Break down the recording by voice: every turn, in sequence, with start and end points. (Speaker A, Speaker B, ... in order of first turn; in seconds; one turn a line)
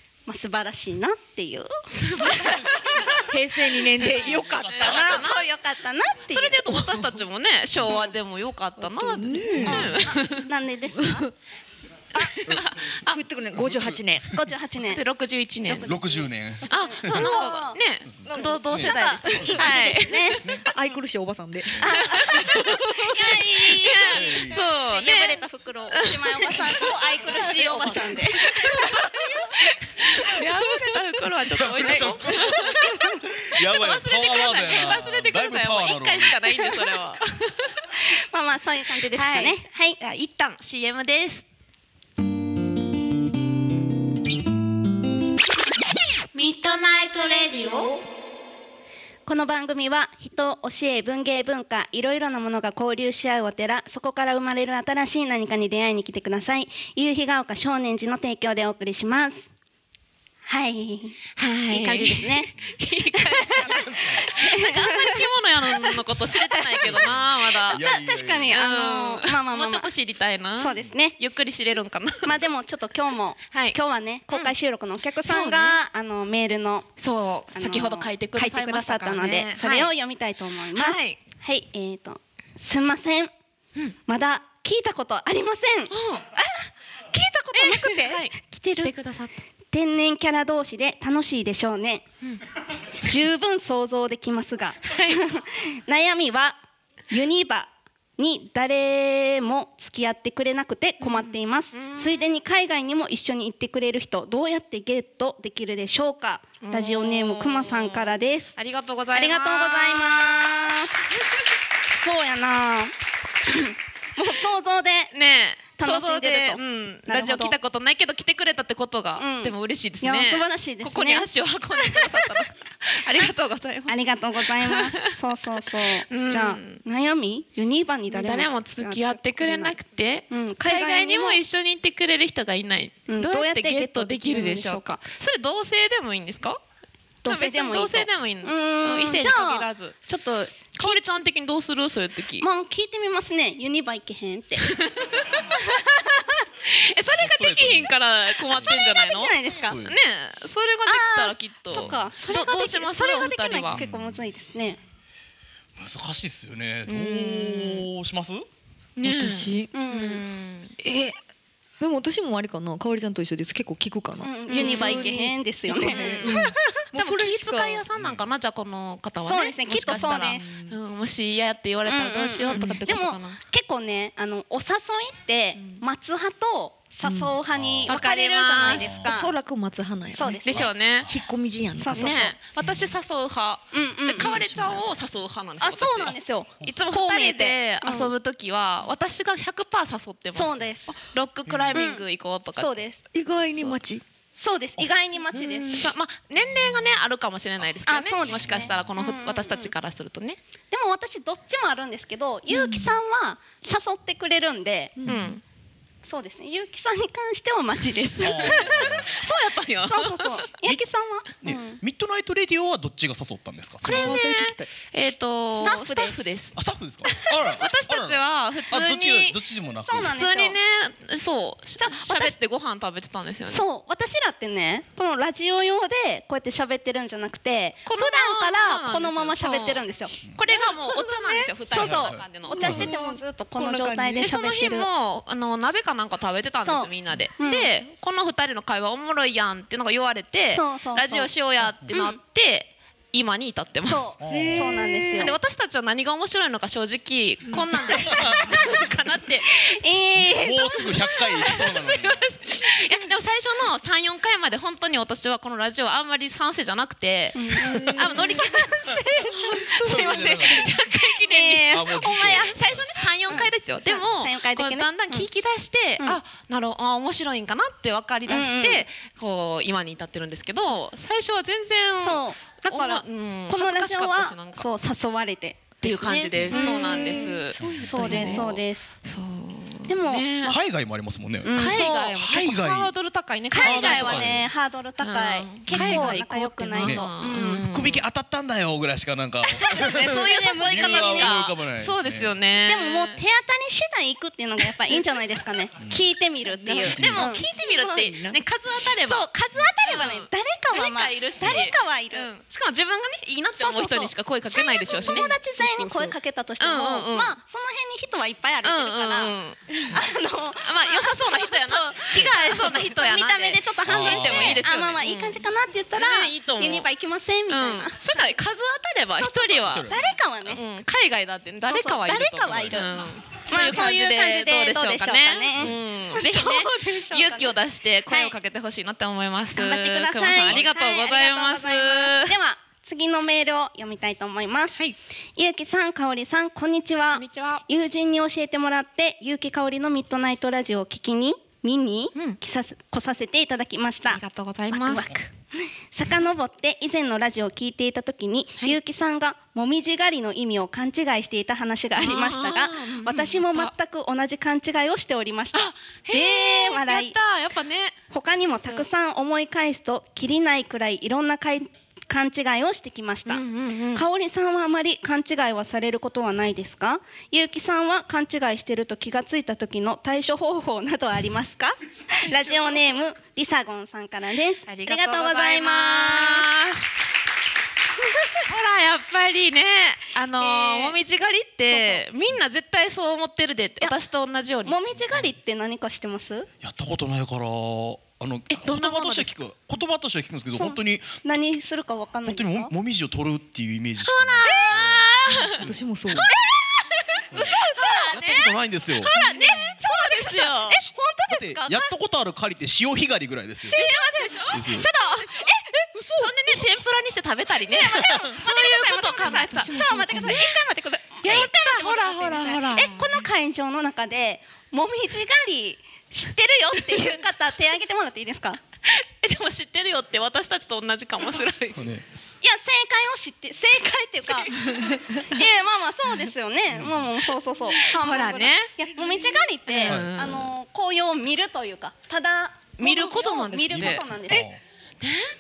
Speaker A: 0.3-3.2
Speaker B: 1.9-2.6
Speaker C: 3.2-5.2
Speaker D: 4.1-5.3
Speaker B: 4.2-5.5
Speaker A: 4.8-6.8
Speaker B: 6.3-10.5
Speaker C: 8.8-10.0
Speaker D: 9.6-10.0
Speaker A: 9.7-11.3
Speaker B: 12.2-13.2
Speaker C: 13.1-14.3
Speaker D: 13.6-14.0
Speaker A: 14.3-15.0
Speaker B: 14.9-15.9
Speaker D: 15.8-17.3
Speaker B: 16.7-20.9
Speaker A: 16.7-17.8
Speaker D: 18.1-19.7
Speaker C: 18.3-18.9
Speaker A: 18.3-20.5
Speaker C: 20.6-23.2
Speaker D: 21.7-22.0
Speaker A: 21.8-29.4
Speaker B: 22.1-22.6
Speaker B: 23.7-25.4
Speaker D: 24.0-24.6
Speaker B: 25.9-26.9
Speaker B: 27.4-32.9
Speaker C: 27.8-28.1
Speaker C: 30.4-31.0
Speaker D: 31.5-36.5
Speaker C: 31.8-33.1
Speaker B: 33.6-37.7
Speaker A: 38.1-40.0
Speaker B: 39.1-41.4
Speaker A: 46.4-48.0
Speaker A: 49.2-59.5
Speaker A: 60.5-62.5
Speaker B: 61.4-67.8
Speaker A: 63.1-67.0
Speaker D: 63.7-64.2
Speaker D: 66.8-68.6
Speaker A: 67.7-69.9
Speaker B: 68.5-72.3
Speaker A: 70.6-71.2
Speaker A: 72.2-76.9
Speaker B: 73.5-73.8
Speaker B: 75.2-75.8
Speaker B: 77.0-79.9
Speaker A: 77.5-83.3
Speaker B: 80.8-81.2
Speaker A: 84.1-88.9
Speaker B: 85.9-86.2
Speaker B: 87.5-89.3
Speaker A: 89.7-92.0
Speaker A: 93.0-108.6
Speaker B: 94.9-95.2
Speaker B: 101.0-102.2
Speaker B: 106.6-110.6
Speaker A: 109.1-111.1
Speaker A: 112.0-112.9
Speaker A: 113.4-115.1
Speaker B: 115.1-125.0
Speaker A: 115.8-117.5
Speaker A: 119.2-122.4
Speaker A: 123.9-129.8
Speaker B: 126.1-126.8
Speaker B: 128.1-136.6
Speaker A: 130.3-131.4
Speaker A: 133.1-135.0
Speaker A: 137.2-141.0
Speaker B: 137.2-142.5
Speaker A: 142.4-144.7
Speaker B: 144.6-146.0
Speaker B: 146.6-153.8
Speaker D: 147.2-147.9
Speaker A: 148.5-149.8
Speaker D: 149.6-150.0
Speaker A: 150.9-154.8
Speaker D: 151.7-152.1
Speaker D: 153.7-154.2
Speaker D: 155.8-158.5
Speaker B: 156.9-157.9
Speaker B: 159.0-160.8
Speaker C: 159.0-159.7
Speaker A: 159.7-160.2
Speaker C: 160.8-161.2
Speaker C: 161.8-167.8
Speaker A: 164.2-166.8
Speaker B: 164.5-165.1
Speaker B: 165.8-173.4
Speaker D: 167.9-168.3
Speaker A: 169.2-170.5
Speaker C: 170.4-170.8
Speaker A: 171.9-179.3
Speaker C: 172.5-172.9
Speaker C: 177.0-177.3
Speaker D: 177.5-178.0
Speaker B: 177.9-178.9
Speaker D: 178.7-179.1
Speaker C: 178.9-182.3
Speaker A: 180.1-180.7
Speaker B: 180.4-181.1
Speaker A: 181.8-182.4
Speaker B: 181.9-192.8
Speaker A: 183.7-184.4
Speaker C: 184.2-184.8
Speaker A: 185.6-188.1
Speaker A: 190.3-191.0
Speaker D: 191.5-191.7
Speaker A: 191.7-192.0
Speaker A: 192.6-193.0
Speaker C: 193.1-194.0
Speaker B: 193.5-193.8
Speaker A: 194.4-195.9
Speaker D: 195.3-195.7
Speaker B: 195.6-200.4
Speaker A: 197.8-199.7
Speaker D: 198.3-198.8
Speaker A: 200.7-204.9
Speaker C: 202.5-202.9
Speaker C: 205.0-205.3
Speaker B: 205.1-205.4
Speaker A: 206.0-209.1
Speaker D: 208.2-209.1
Speaker B: 208.4-210.4
Speaker A: 209.8-211.8
Speaker D: 211.4-214.2
Speaker C: 213.8-214.7
Speaker B: 213.9-216.6
Speaker A: 215.5-216.2
Speaker D: 216.6-220.1
Speaker B: 217.1-219.4
Speaker A: 219.8-220.6
Speaker B: 220.0-223.7
Speaker A: 221.8-222.4
Speaker A: 223.5-234.9
Speaker B: 227.9-232.9
Speaker C: 231.0-231.3
Speaker D: 231.7-232.9
Speaker C: 232.5-234.3
Speaker B: 234.2-244.0
Speaker A: 236.6-237.7
Speaker A: 240.5-241.3
Speaker A: 241.9-242.2
Speaker A: 243.8-245.4
Speaker D: 244.2-244.7
Speaker C: 244.3-245.3
Speaker B: 245.1-249.7
Speaker D: 247.9-248.8
Speaker A: 248.2-248.6
Speaker A: 249.5-250.9
Speaker D: 250.3-252.3
Speaker B: 251.2-259.0
Speaker A: 257.4-262.6
Speaker C: 257.6-258.4
Speaker B: 259.6-274.7
Speaker D: 259.7-260.7
Speaker D: 261.7-262.9
Speaker A: 263.3-265.3
Speaker A: 268.3-268.9
Speaker A: 272.0-278.9
Speaker B: 275.8-280.6
Speaker D: 276.3-276.7
Speaker D: 277.6-278.3
Speaker C: 277.6-278.5
Speaker A: 279.9-280.6
Speaker D: 280.5-282.9
Speaker A: 281.4-282.1
Speaker B: 281.5-284.4
Speaker A: 283.5-287.6
Speaker D: 283.6-284.5
Speaker B: 285.0-288.0
Speaker D: 285.7-286.1
Speaker D: 286.8-292.3
Speaker A: 289.5-291.4
Speaker B: 289.5-293.2
Speaker A: 292.6-297.7
Speaker B: 296.7-299.3
Speaker D: 296.9-297.4
Speaker C: 297.6-298.4
Speaker A: 299.0-302.3
Speaker B: 299.8-305.4
Speaker A: 303.6-318.2
Speaker C: 305.6-306.1
Speaker B: 306.6-307.4
Speaker B: 308.6-310.0
Speaker B: 310.6-316.9
Speaker D: 313.9-314.6
Speaker B: 317.5-319.9
Speaker A: 319.2-320.6
Speaker D: 319.6-320.1
Speaker B: 320.5-332.4
Speaker A: 321.7-327.6
Speaker D: 322.4-322.8
Speaker A: 328.1-328.4
Speaker A: 329.6-334.8
Speaker A: 335.4-344.2
Speaker B: 337.1-337.6
Speaker B: 344.1-345.2
Speaker A: 344.7-357.2
Speaker B: 352.0-353.7
Speaker B: 355.5-358.0
Speaker A: 358.1-376.5
Speaker B: 358.5-358.9
Speaker B: 363.3-364.0
Speaker B: 372.3-372.8
Speaker B: 374.7-376.9
Speaker A: 378.0-378.4
Speaker B: 378.5-384.8
Speaker A: 380.4-381.0
Speaker A: 381.7-382.0
Speaker A: 384.7-386.5
Speaker D: 386.6-391.2
Speaker B: 388.5-389.3
Speaker A: 390.6-392.7
Speaker D: 392.2-396.3
Speaker B: 394.1-395.6
Speaker A: 394.4-395.5
Speaker C: 395.6-396.3
Speaker A: 396.2-398.4
Speaker B: 396.9-400.8
Speaker D: 397.3-397.6
Speaker D: 398.1-399.1
Speaker A: 399.1-401.9
Speaker D: 401.3-403.8
Speaker A: 403.7-406.4
Speaker B: 403.7-405.5
Speaker D: 404.5-404.9
Speaker B: 406.2-410.5
Speaker A: 407.7-418.6
Speaker C: 409.7-410.3
Speaker B: 411.2-413.2
Speaker B: 418.9-421.8
Speaker D: 421.8-422.0
Speaker A: 422.4-434.5
Speaker B: 424.3-425.0
Speaker D: 426.8-427.0
Speaker B: 427.8-428.7
Speaker B: 429.7-430.5
Speaker B: 432.8-434.1
Speaker D: 433.8-434.6
Speaker B: 435.0-435.3